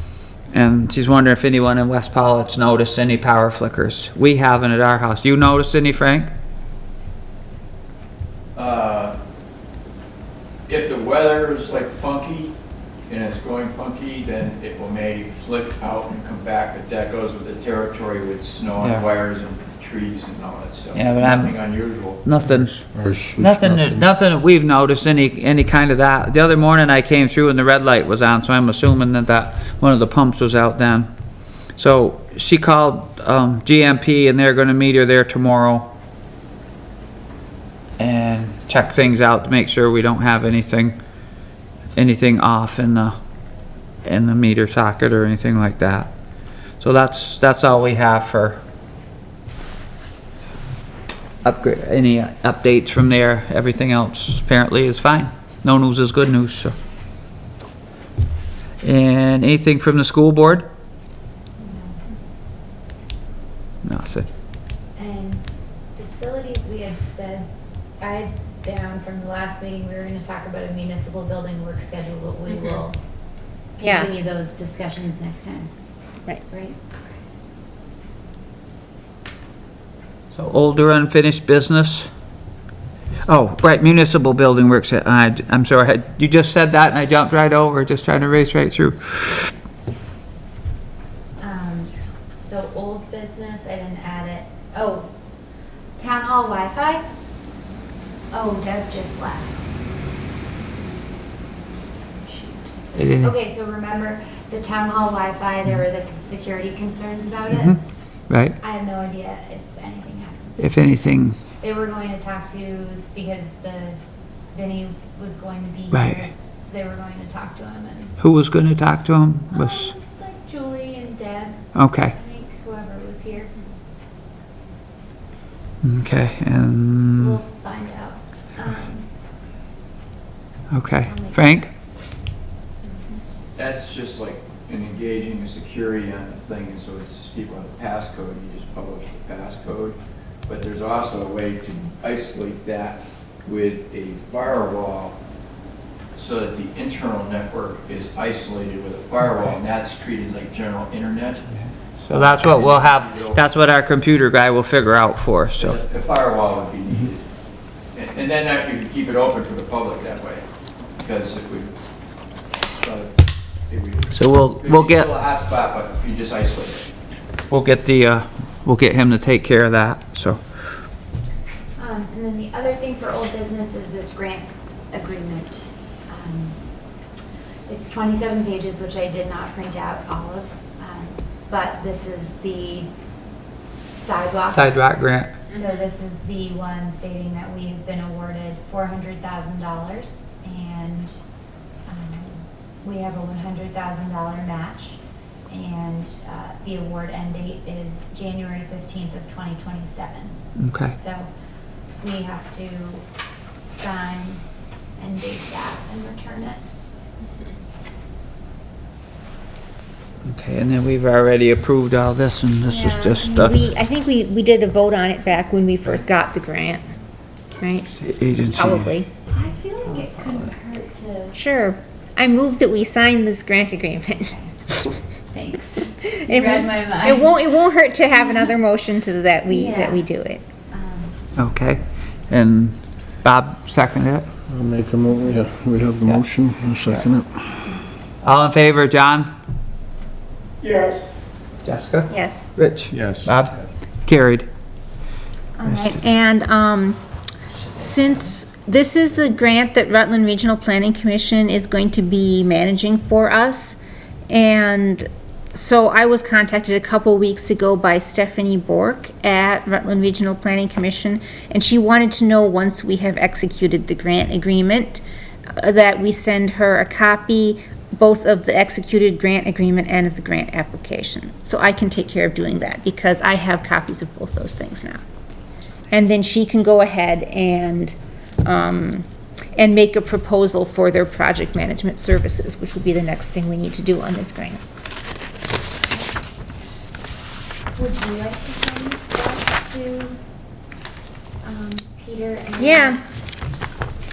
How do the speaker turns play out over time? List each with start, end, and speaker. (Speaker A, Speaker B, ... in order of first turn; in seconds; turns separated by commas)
Speaker A: 0.5-6.3, Speaker B: 8.6-9.2, Speaker B: 10.7-12.5, Speaker B: 13.1-22.2, Speaker A: 18.8-19.0, Speaker A: 20.9-21.6, Speaker A: 22.2-31.1, Speaker C: 22.5-24.0, Speaker A: 31.8-35.9, Speaker A: 38.0-41.0, Speaker A: 42.0-43.2, Speaker A: 44.0-46.1, Speaker A: 46.8-48.6, Speaker A: 51.4-56.7, Speaker A: 58.8-60.7, Speaker D: 61.6-62.0, Speaker A: 63.8-64.3, Speaker D: 65.0-67.5, Speaker D: 68.0-73.0, Speaker D: 73.8-75.7, Speaker E: 73.8-74.1, Speaker D: 76.5-77.1, Speaker A: 80.3-82.1, Speaker A: 83.3-89.5, Speaker D: 91.4-95.1, Speaker D: 96.0-97.0, Speaker D: 98.3-99.7, Speaker D: 102.1-107.8, Speaker A: 103.0-103.3, Speaker A: 107.5-108.6, Speaker D: 108.6-110.6, Speaker A: 110.6-111.4, Speaker D: 111.6-114.0, Speaker D: 114.5-118.2, Speaker A: 115.9-116.3, Speaker A: 118.2-119.9, Speaker D: 119.5-123.7, Speaker A: 121.8-122.1, Speaker A: 125.8-127.4, Speaker D: 127.2-129.1, Speaker A: 130.7-131.7, Speaker D: 131.1-131.5, Speaker D: 132.8-133.2, Speaker B: 133.6-145.2, Speaker B: 146.2-151.5, Speaker A: 152.0-155.8, Speaker B: 152.1-153.4, Speaker B: 155.6-157.2, Speaker B: 157.9-160.4, Speaker B: 161.0-161.7, Speaker B: 162.7-166.9, Speaker A: 164.1-165.1, Speaker A: 167.5-170.7, Speaker D: 171.8-176.6, Speaker D: 177.7-182.9, Speaker D: 183.9-184.9, Speaker A: 184.5-185.3, Speaker D: 185.4-191.2, Speaker D: 191.9-201.3, Speaker A: 200.6-200.9, Speaker D: 202.0-204.4, Speaker D: 205.0-206.6, Speaker A: 210.2-213.6, Speaker E: 212.7-216.8, Speaker E: 217.6-217.9, Speaker A: 217.9-218.9, Speaker E: 218.5-219.1, Speaker D: 219.3-221.4, Speaker E: 221.3-225.0, Speaker D: 225.3-227.4, Speaker E: 226.1-230.4, Speaker D: 229.5-230.1, Speaker D: 230.7-231.2, Speaker A: 231.3-234.3, Speaker C: 234.5-237.4, Speaker A: 238.2-239.3, Speaker B: 240.6-241.0, Speaker A: 241.6-244.5, Speaker E: 242.1-242.5, Speaker C: 242.9-243.3, Speaker E: 245.6-247.0, Speaker A: 245.7-246.0, Speaker E: 247.8-253.8, Speaker E: 254.3-265.0, Speaker E: 265.6-275.0, Speaker E: 275.9-284.6, Speaker D: 287.7-290.2, Speaker D: 291.4-293.2, Speaker E: 292.6-293.0